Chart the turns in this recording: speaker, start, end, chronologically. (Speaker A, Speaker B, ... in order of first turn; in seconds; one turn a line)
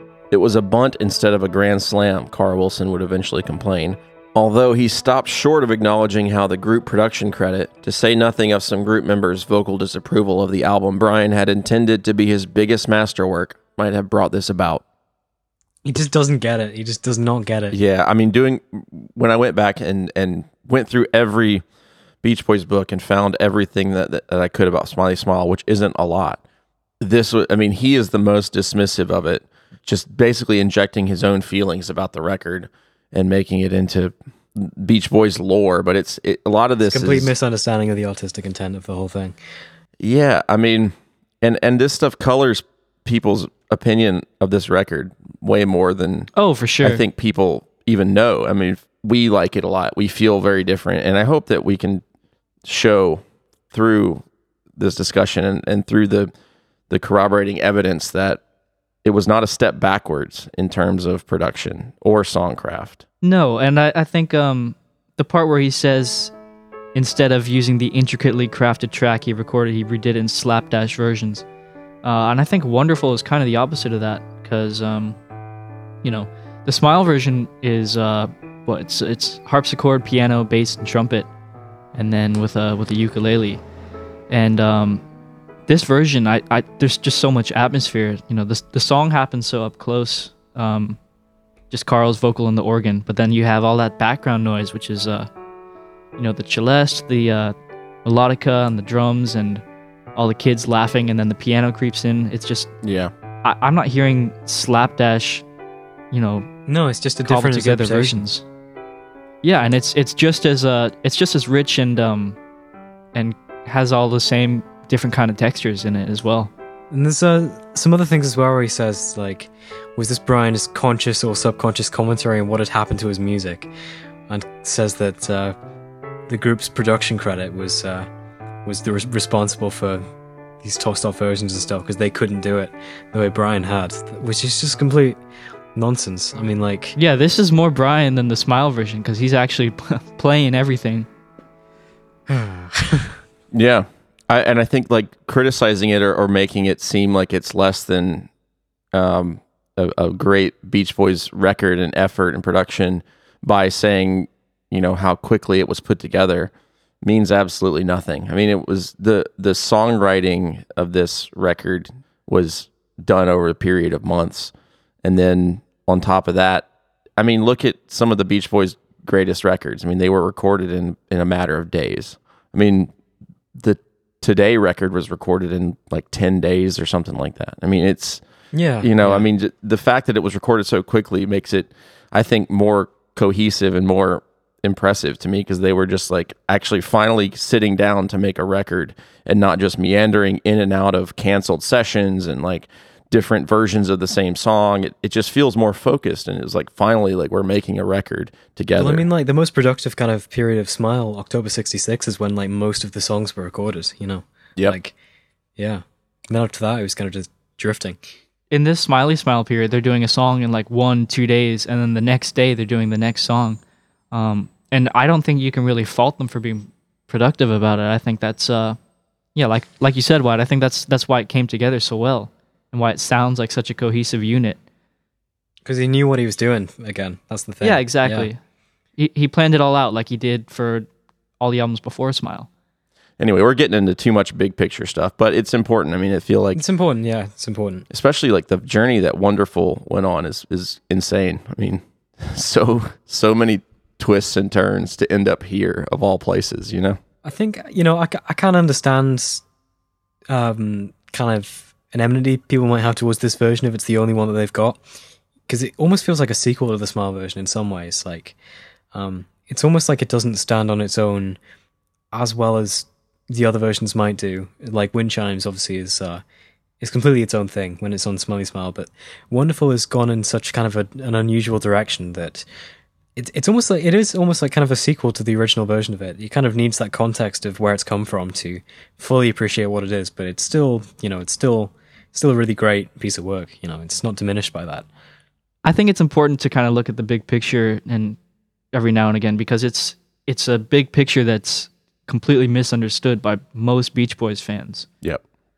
Speaker A: 0.3-14.8
Speaker B: 15.8-17.8
Speaker A: 17.7-21.6
Speaker A: 22.2-26.4
Speaker A: 27.0-37.3
Speaker B: 36.8-39.4
Speaker A: 40.0-52.0
Speaker C: 46.3-47.0
Speaker A: 52.6-54.2
Speaker A: 54.8-56.3
Speaker A: 56.9-58.4
Speaker A: 59.0-63.0
Speaker C: 63.2-66.3
Speaker C: 66.9-71.4
Speaker C: 72.0-75.2
Speaker C: 76.0-81.3
Speaker C: 81.9-83.6
Speaker C: 84.3-85.0
Speaker C: 85.7-91.0
Speaker C: 91.7-95.3
Speaker C: 96.2-99.6
Speaker C: 100.1-102.7
Speaker A: 102.8-103.1
Speaker C: 103.4-105.4
Speaker C: 106.1-106.5
Speaker B: 106.7-108.2
Speaker C: 107.2-108.4
Speaker C: 109.4-112.4
Speaker C: 113.1-116.5
Speaker B: 116.9-123.7
Speaker B: 124.3-125.5
Speaker B: 126.3-128.1
Speaker B: 128.6-130.0
Speaker B: 130.6-135.2
Speaker B: 135.7-136.9
Speaker C: 136.9-141.1
Speaker B: 142.3-143.2
Speaker A: 143.5-148.3
Speaker A: 148.9-156.5
Speaker A: 157.0-164.5
Speaker A: 165.0-172.9
Speaker A: 173.5-178.2
Speaker B: 178.5-179.3
Speaker A: 178.8-199.1
Speaker B: 198.8-204.9
Speaker B: 205.6-208.0
Speaker C: 208.5-218.8
Speaker C: 219.3-224.6
Speaker B: 225.6-228.3
Speaker C: 227.6-228.4
Speaker C: 229.0-230.9
Speaker C: 231.4-232.5
Speaker A: 233.2-236.6
Speaker B: 236.5-237.8
Speaker A: 237.9-247.0
Speaker B: 247.2-249.4
Speaker B: 250.3-254.8
Speaker B: 255.5-258.4
Speaker B: 258.9-261.4
Speaker B: 262.1-266.2
Speaker B: 266.8-272.4
Speaker B: 273.1-284.9
Speaker C: 285.6-288.2
Speaker C: 288.7-294.9